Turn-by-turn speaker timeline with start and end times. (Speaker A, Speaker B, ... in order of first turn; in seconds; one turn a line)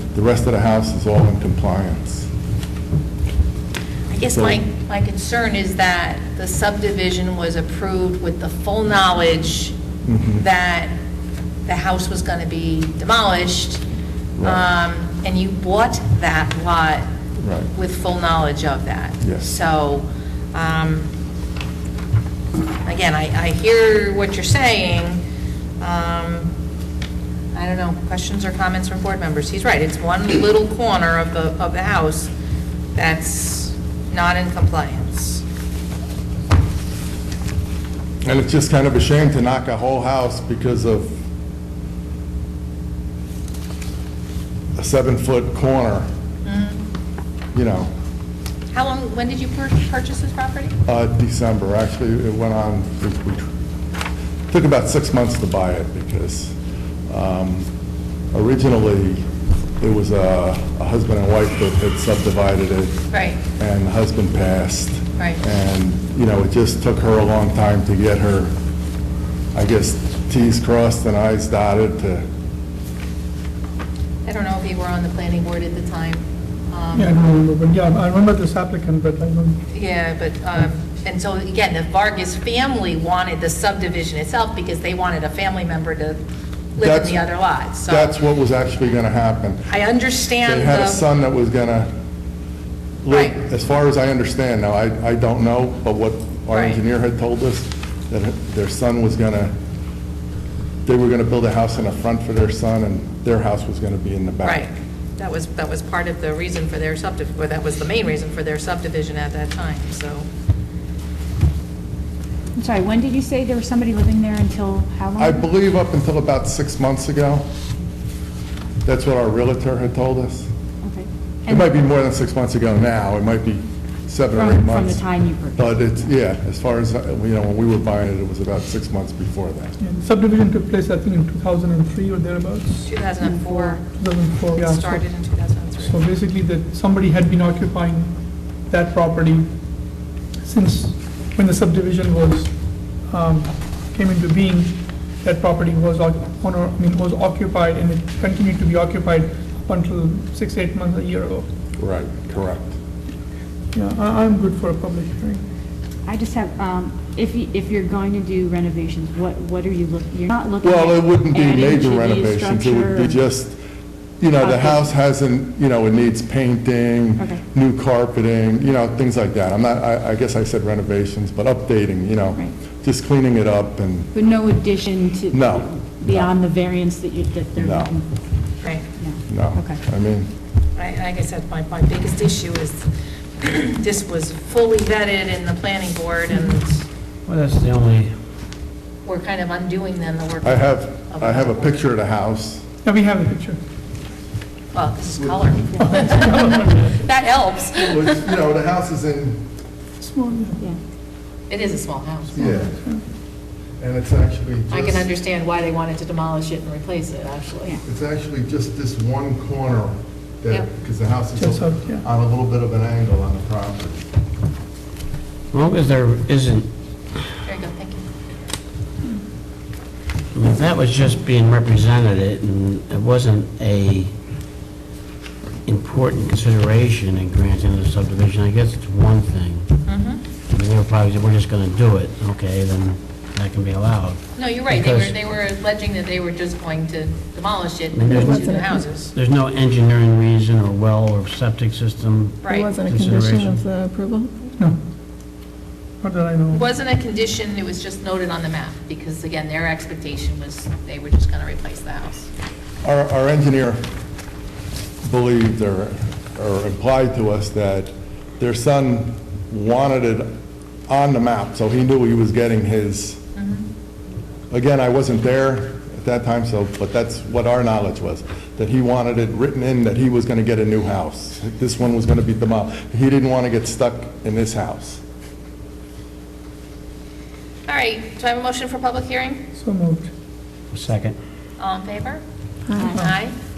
Speaker A: 0.1-2.3
Speaker B: 4.1-9.8
Speaker A: 4.3-4.6
Speaker A: 10.0-10.4
Speaker B: 10.4-10.9
Speaker B: 11.7-13.8
Speaker A: 14.4-14.6
Speaker B: 14.4-17.1
Speaker A: 17.4-17.7
Speaker B: 17.7-21.1
Speaker A: 19.2-19.5
Speaker B: 22.9-25.2
Speaker B: 25.8-26.5
Speaker B: 27.5-32.3
Speaker B: 32.9-35.4
Speaker A: 38.2-41.1
Speaker A: 44.8-46.1
Speaker B: 46.4-46.8
Speaker A: 47.5-47.9
Speaker B: 48.7-50.8
Speaker A: 50.9-53.5
Speaker A: 54.5-56.5
Speaker A: 57.1-57.7
Speaker A: 58.3-59.2
Speaker A: 59.8-63.0
Speaker B: 63.1-63.4
Speaker A: 63.5-68.5
Speaker A: 69.5-72.2
Speaker B: 74.2-77.1
Speaker C: 76.9-79.6
Speaker B: 79.7-86.2
Speaker B: 86.8-88.1
Speaker A: 86.8-87.2
Speaker A: 87.8-89.7
Speaker B: 89.7-91.0
Speaker A: 90.4-91.9
Speaker A: 93.0-99.5
Speaker B: 93.1-93.4
Speaker B: 96.5-96.8
Speaker A: 100.8-104.7
Speaker B: 104.4-110.2
Speaker D: 112.5-115.5
Speaker A: 115.2-117.5
Speaker A: 118.8-120.5
Speaker D: 120.8-121.7
Speaker A: 121.5-129.8
Speaker D: 124.3-126.0
Speaker C: 129.8-133.0
Speaker B: 132.8-133.8
Speaker D: 133.2-133.8
Speaker C: 133.9-135.1
Speaker B: 134.5-136.0
Speaker C: 135.8-138.1
Speaker C: 138.7-139.5
Speaker C: 140.4-142.5
Speaker C: 143.1-151.5
Speaker A: 151.8-152.7
Speaker C: 153.7-155.4
Speaker D: 156.1-163.2
Speaker A: 160.6-163.6
Speaker A: 164.2-174.1
Speaker D: 164.4-164.9
Speaker D: 174.1-178.1
Speaker A: 175.3-176.3
Speaker A: 177.6-177.9
Speaker D: 178.9-179.8
Speaker A: 179.2-180.3
Speaker B: 180.8-186.8
Speaker E: 187.2-188.1
Speaker B: 189.0-191.7
Speaker A: 190.4-192.6
Speaker C: 192.8-193.6
Speaker B: 194.7-198.2
Speaker A: 195.2-195.5
Speaker C: 195.8-197.0
Speaker A: 197.9-199.4
Speaker C: 200.0-200.7
Speaker B: 201.5-202.4
Speaker A: 202.3-202.7
Speaker C: 202.4-203.0
Speaker A: 203.8-205.1
Speaker B: 204.7-207.8
Speaker A: 207.8-214.0
Speaker C: 211.3-212.0
Speaker E: 215.5-216.7
Speaker B: 217.4-218.0
Speaker E: 220.3-224.1
Speaker E: 225.7-229.8
Speaker B: 229.8-230.2
Speaker E: 230.5-235.2
Speaker B: 234.3-239.1
Speaker E: 237.9-243.7
Speaker F: 238.1-238.8
Speaker B: 242.4-242.8
Speaker F: 242.4-244.3
Speaker C: 246.0-246.6
Speaker B: 246.5-252.3
Speaker A: 252.8-253.8
Speaker A: 255.0-260.3
Speaker A: 260.9-263.2
Speaker B: 263.4-263.7
Speaker A: 264.5-275.0
Speaker B: 277.7-279.4
Speaker C: 279.5-280.1
Speaker E: 280.7-281.1
Speaker B: 281.6-282.2
Speaker B: 282.7-283.3
Speaker C: 282.9-283.1